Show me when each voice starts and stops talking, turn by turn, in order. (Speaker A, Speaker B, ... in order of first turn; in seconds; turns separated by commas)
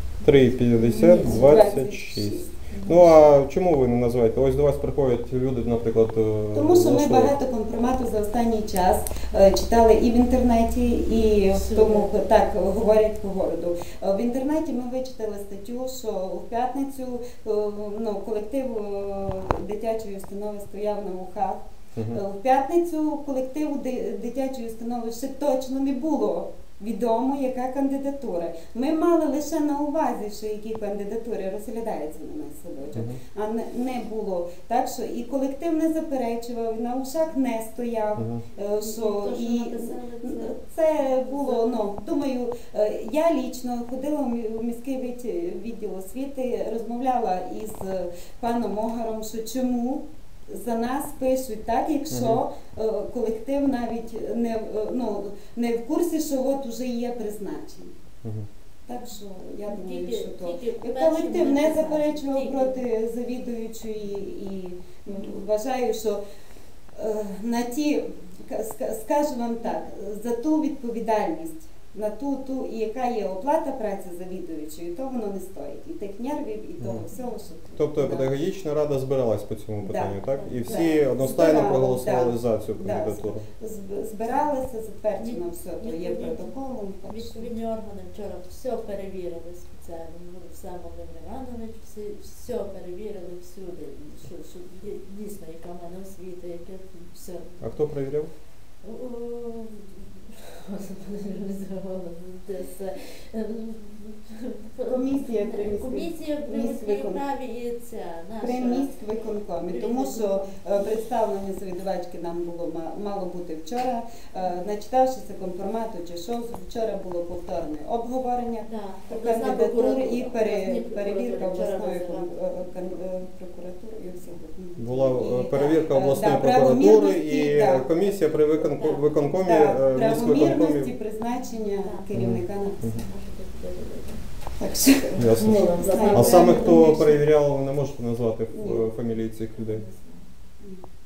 Speaker A: 0.2-7.3, Speaker B: 0.8-1.5, Speaker C: 0.9-2.6, Speaker B: 2.7-3.1, Speaker C: 6.5-57.9, Speaker B: 11.5-12.1, Speaker A: 21.9-22.2, Speaker A: 32.9-33.2, Speaker A: 38.1-38.4, Speaker B: 38.6-41.9, Speaker A: 52.1-52.4, Speaker A: 58.2-58.5, Speaker C: 58.9-66.2, Speaker B: 59.7-62.8, Speaker B: 65.1-65.4, Speaker C: 66.9-78.3, Speaker A: 77.8-83.5, Speaker C: 79.8-87.5, Speaker B: 80.3-81.9, Speaker B: 85.2-97.8, Speaker A: 97.6-98.3, Speaker B: 98.8-108.9, Speaker C: 104.9-107.2, Speaker C: 108.4-127.9, Speaker B: 109.6-111.0, Speaker B: 118.7-122.7, Speaker A: 124.8-130.9, Speaker B: 128.0-130.3, Speaker C: 129.4-132.9, Speaker B: 131.3-134.3, Speaker A: 132.1-133.1, Speaker C: 134.6-136.8, Speaker A: 135.2-139.8, Speaker B: 135.2-137.2, Speaker C: 138.5-138.9, Speaker B: 139.5-140.3